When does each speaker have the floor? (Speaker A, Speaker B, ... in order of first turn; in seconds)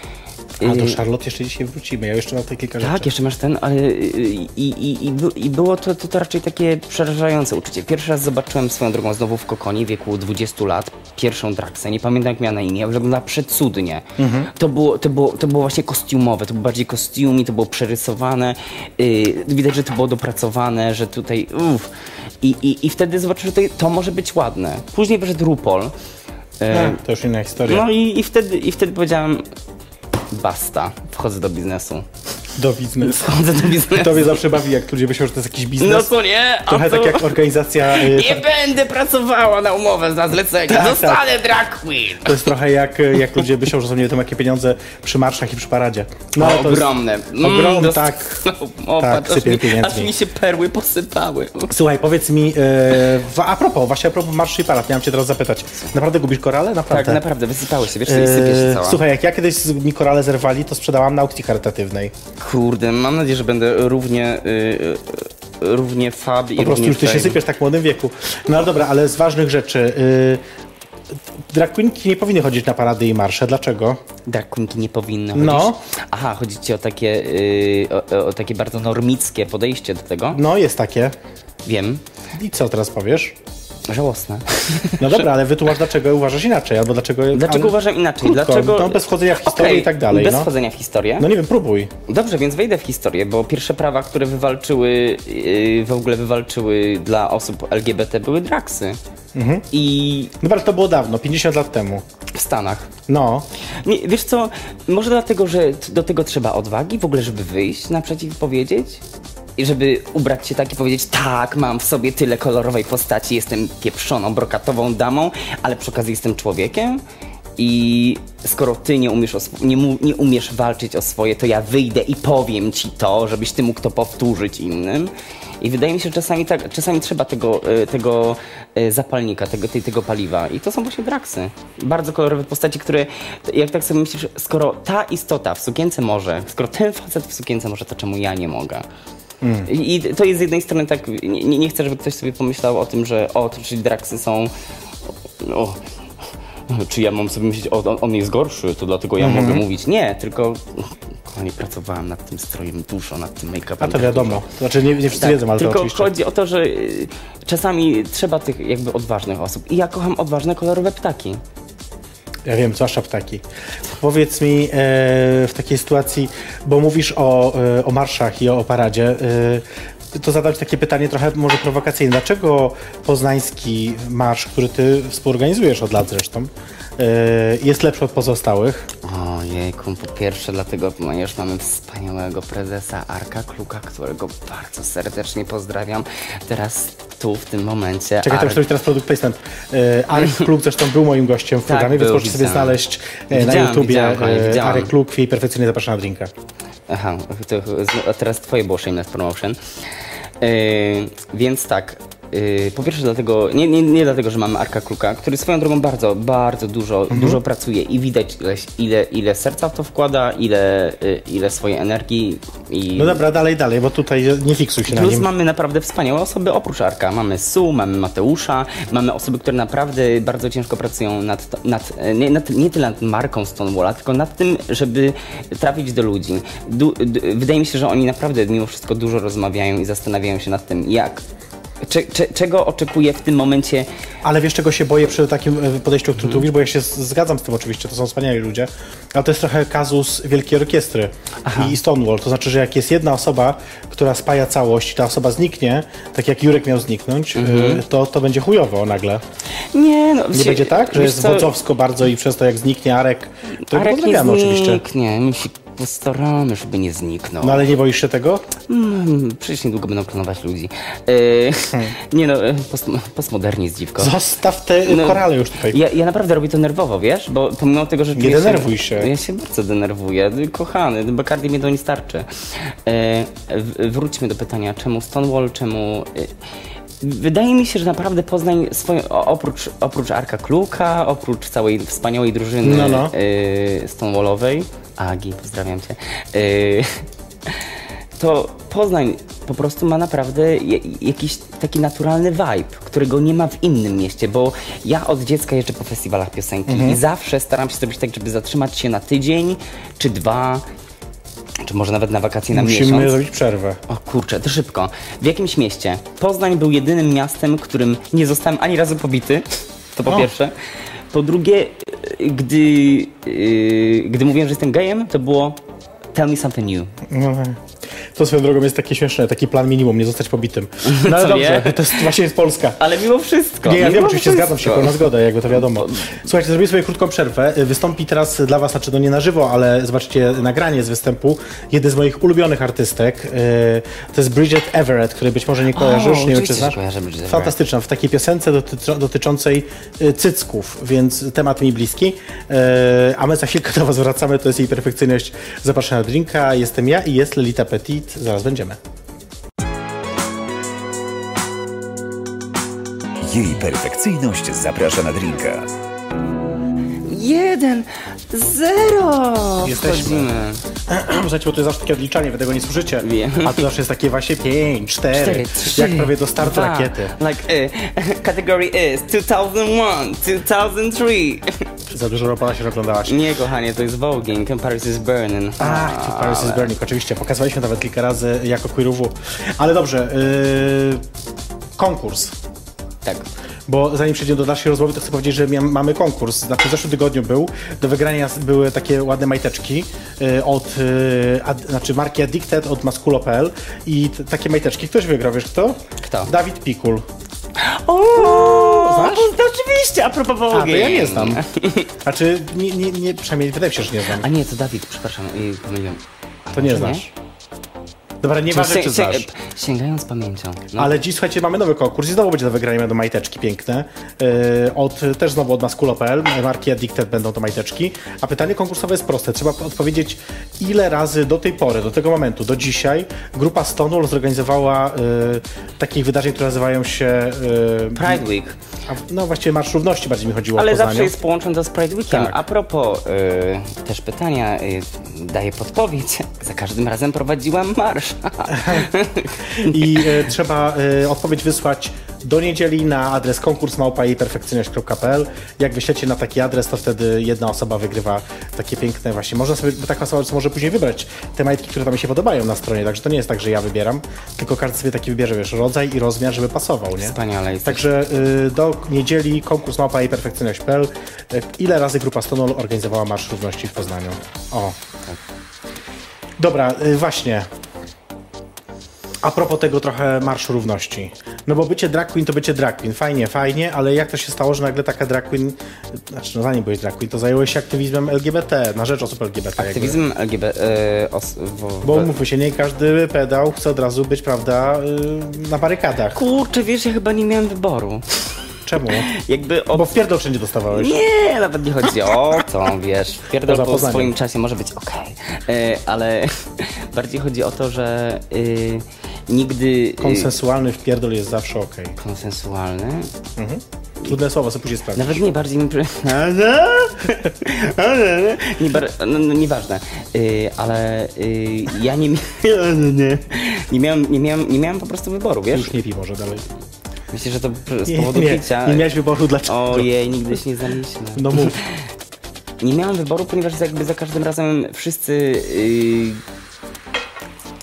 Speaker A: 0.6-1.0, 2.8-25.9, 26.6-27.0, 27.6-29.4, 30.3-32.0, 33.0-34.4, 35.8-42.5, 46.4-51.7, 56.9-59.0, 62.4-67.4, 74.2-80.4, 81.6-82.0, 83.9-85.2, 87.3-91.3, 92.1-99.0, 99.7-100.3, 102.3-102.9, 103.8-109.0, 109.6-117.0, 117.6-138.8, 139.7-144.5, 145.4-145.8, 146.7-154.4, 155.1-161.4, 179.0-188.6, 191.7-192.8, 193.3-194.9, 196.9-199.6, 200.4-213.2, 214.9-231.2, 231.8-233.9, 241.4-241.8, 247.3-247.8, 249.7-251.5, 253.7-257.7, 258.7-264.1, 264.8-276.3, 277.0-300.6, 301.6-303.2, 303.9-310.5, 311.1-315.6, 316.1-316.9, 320.8-322.1, 322.8-326.2, 335.7-337.5, 357.0-360.6, 363.0-363.6, 365.1-371.6, 373.0-376.7, 383.0-383.3, 396.0-396.3, 397.6-401.9, 404.1-407.1, 408.5-410.9, 427.9-428.6, 430.5-440.1, 457.0-457.8, 479.6-482.1, 486.1-488.2, 489.0-489.9, 490.7-500.3, 502.0-503.1, 504.9-515.7, 517.1-518.9, 519.4-521.9, 522.6-526.2
Speaker B: 0.6-3.1, 14.2-14.5, 26.7-27.9, 32.6-36.1, 36.6-38.4, 40.7-41.2, 42.2-48.4, 49.0-50.1, 51.7-57.2, 58.0-62.1, 66.6-70.4, 71.5-74.0, 75.3-75.8, 80.3-81.1, 82.3-83.3, 85.0-90.5, 91.2-91.9, 99.3-99.7, 100.4-102.0, 103.1-103.5, 139.4-139.7, 149.2-149.6, 153.8-156.1, 162.4-163.4, 163.9-178.9, 188.2-196.3, 207.1-207.4, 212.9-215.3, 234.2-249.2, 250.3-254.8, 257.4-258.5, 264.0-265.8, 268.1-269.1, 282.6-283.1, 296.7-297.0, 302.5-303.8, 317.1-317.6, 318.1-322.8, 323.6-348.8, 359.6-360.3, 360.9-367.1, 371.9-373.2, 375.6-381.0, 381.8-382.4, 383.7-397.0, 398.3-399.3, 400.5-401.4, 402.0-404.3, 406.5-407.1, 408.2-409.3, 410.8-428.2, 428.9-431.1, 432.1-432.4, 438.5-438.9, 439.6-464.8, 466.4-467.5, 469.2-480.0, 481.8-486.2, 488.6-489.1, 489.7-491.0, 493.4-494.1, 500.0-502.0, 503.4-505.2, 515.5-516.4, 517.9-520.4, 521.1-521.6
Speaker C: 353.2-355.7